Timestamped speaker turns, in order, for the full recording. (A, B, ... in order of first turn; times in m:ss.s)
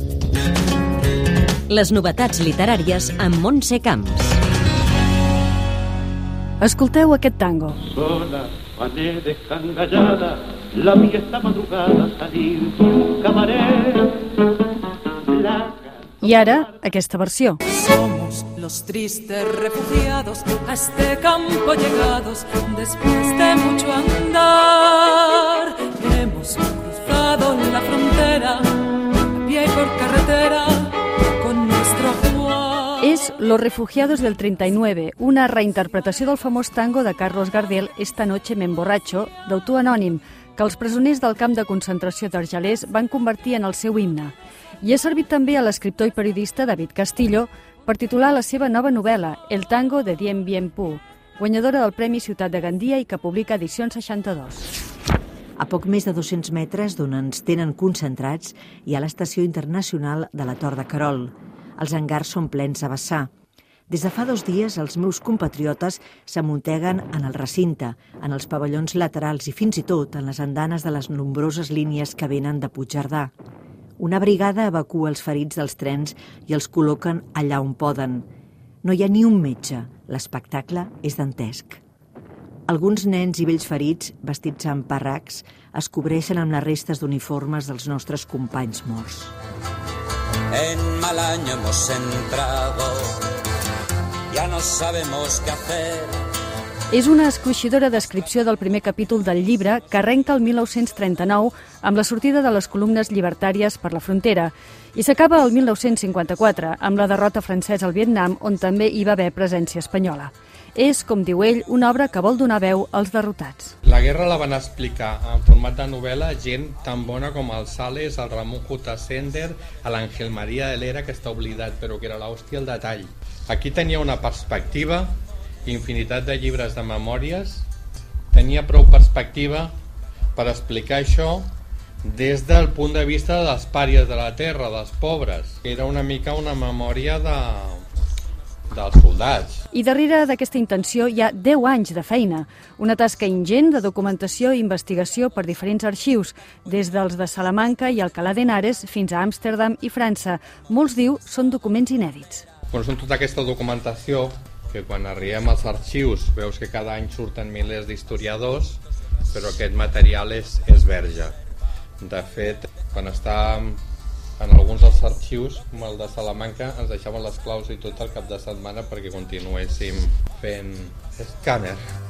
0:01.7-0:04.4 A
0:06.6-0:07.8 B
0:09.9-0:10.3 C
0:11.0-0:13.6 C
0:16.2-0:17.6 B
0:17.7-0:33.0 D
0:33.0-0:54.7 B
0:55.6-1:03.3 E
1:03.9-1:13.3 E
1:14.0-1:18.3 E
1:18.8-1:21.8 E
1:22.7-1:29.3 E
1:30.5-1:33.2 F
1:34.3-1:36.2 F
1:36.9-1:53.7 B
1:53.8-2:07.7 G
2:08.3-2:09.7 G
2:10.4-2:11.5 G
2:12.0-2:17.8 G
2:18.7-2:19.6 G
2:19.7-2:32.5 B
2:32.7-2:38.8 G
2:39.3-2:41.4 G
2:42.0-2:43.8 G
2:44.4-2:51.8 G